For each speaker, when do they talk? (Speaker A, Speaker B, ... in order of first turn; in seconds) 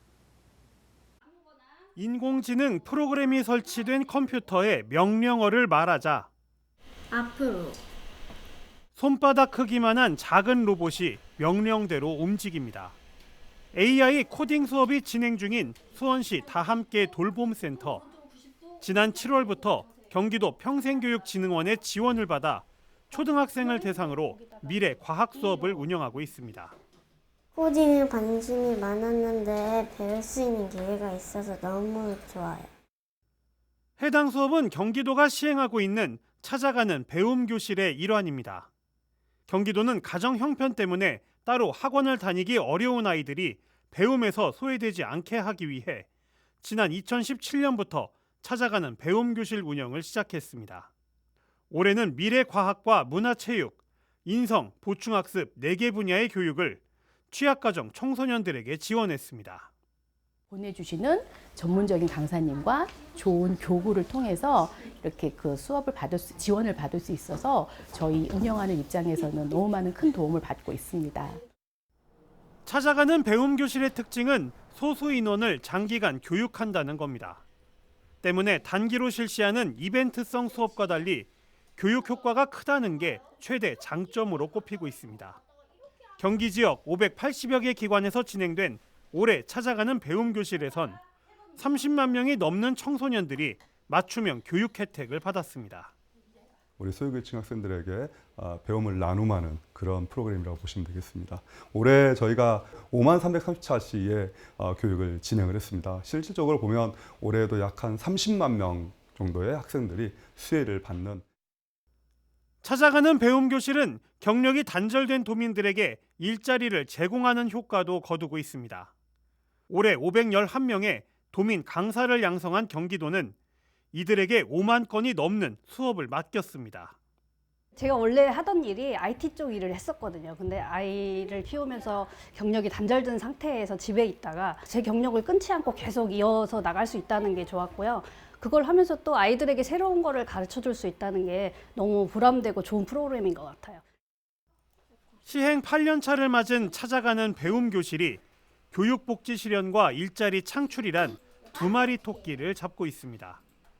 Speaker A: 1.9-6.3, 8.9-13.0, 13.7-18.0, 18.8-26.8, 34.0-38.7, 39.5-46.1, 46.6-50.9, 51.7-59.7, 72.7-77.4, 78.2-85.4, 86.2-91.0, 91.5-95.9, 112.6-118.9, 119.7-123.3, 123.9-127.0, 145.2-153.4
Speaker B: 7.1-7.7, 27.6-32.6
Speaker C: 60.5-71.4
Speaker D: 96.8-111.2
Speaker E: 127.7-143.8